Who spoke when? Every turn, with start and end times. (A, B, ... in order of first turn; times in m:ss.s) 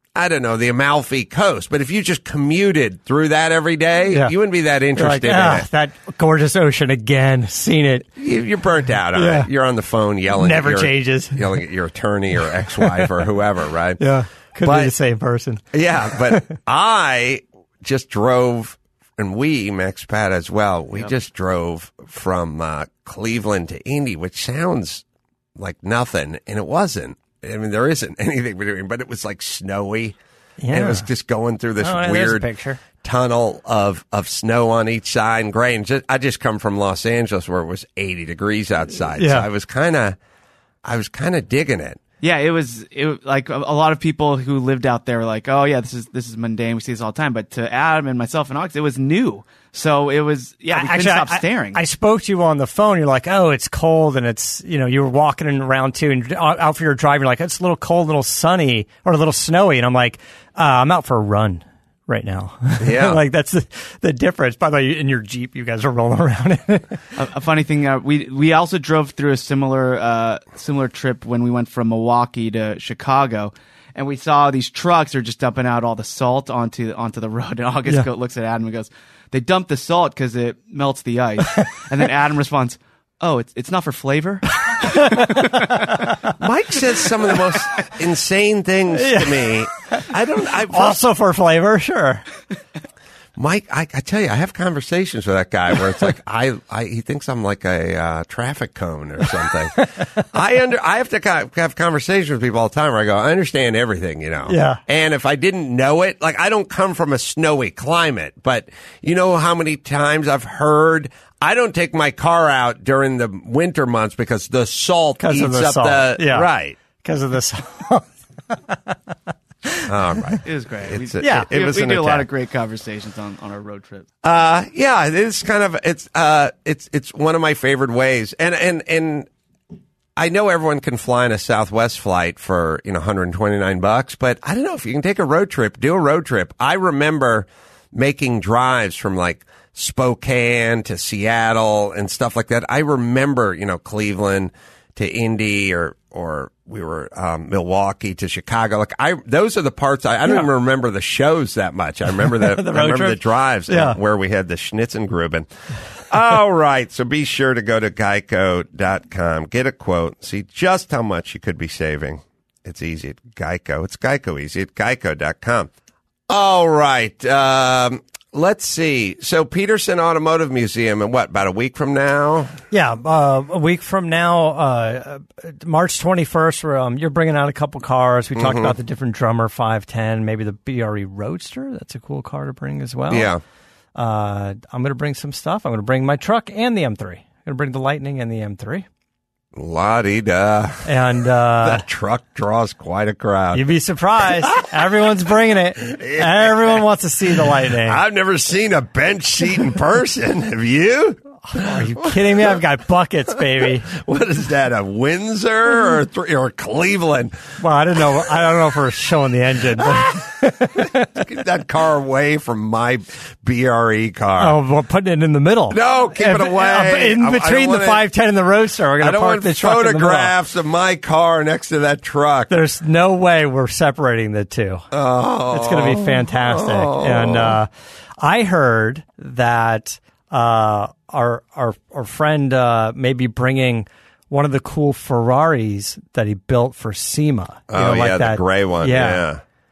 0:00.2-0:05.6 A
0:04.9-0:08.1 B
0:08.2-0:14.0 A
0:09.1-0:09.5 B
0:10.4-0:11.4 B
0:12.8-0:13.1 B
0:14.0-0:16.5 B
0:14.6-0:14.9 A
0:15.7-0:25.0 A
0:25.6-0:30.2 A
0:30.6-0:31.0 B
0:30.7-0:40.2 A
0:31.8-0:32.8 B
0:39.2-0:39.5 B
0:40.8-0:42.0 A
0:42.2-0:51.8 C
0:50.7-1:07.0 B
1:02.8-1:03.2 A
1:07.2-1:25.7 C
1:24.7-1:26.0 B
1:26.4-1:31.0 A
1:28.9-1:30.0 B
1:30.7-1:32.2 B
1:33.4-1:56.8 A
1:44.5-1:44.8 B
1:55.2-1:59.0 B
1:59.6-2:00.3 B
1:59.9-2:02.3 A
2:00.4-2:04.1 C
2:01.2-2:01.5 B
2:04.2-2:09.3 A
2:10.2-2:45.7 A
2:32.2-2:34.0 B
2:46.3-2:52.6 A
2:52.7-3:03.3 B
2:58.3-2:58.8 A
3:03.1-3:03.4 A
3:03.9-3:08.8 B
3:09.5-3:10.9 A
3:10.8-3:11.8 B
3:11.6-3:13.6 A
3:13.5-3:18.0 B
3:14.2-3:14.7 A
3:15.9-3:16.8 A
3:17.8-3:22.6 A
3:21.5-3:23.9 B
3:23.6-3:27.4 A
3:27.6-3:31.1 B
3:29.8-3:30.2 A
3:30.8-3:34.6 A
3:34.4-3:40.3 B
3:35.7-3:38.0 A
3:39.0-3:42.5 A
3:42.5-3:44.8 B
3:44.9-3:47.6 A
3:45.5-3:59.3 B
3:57.7-3:59.4 A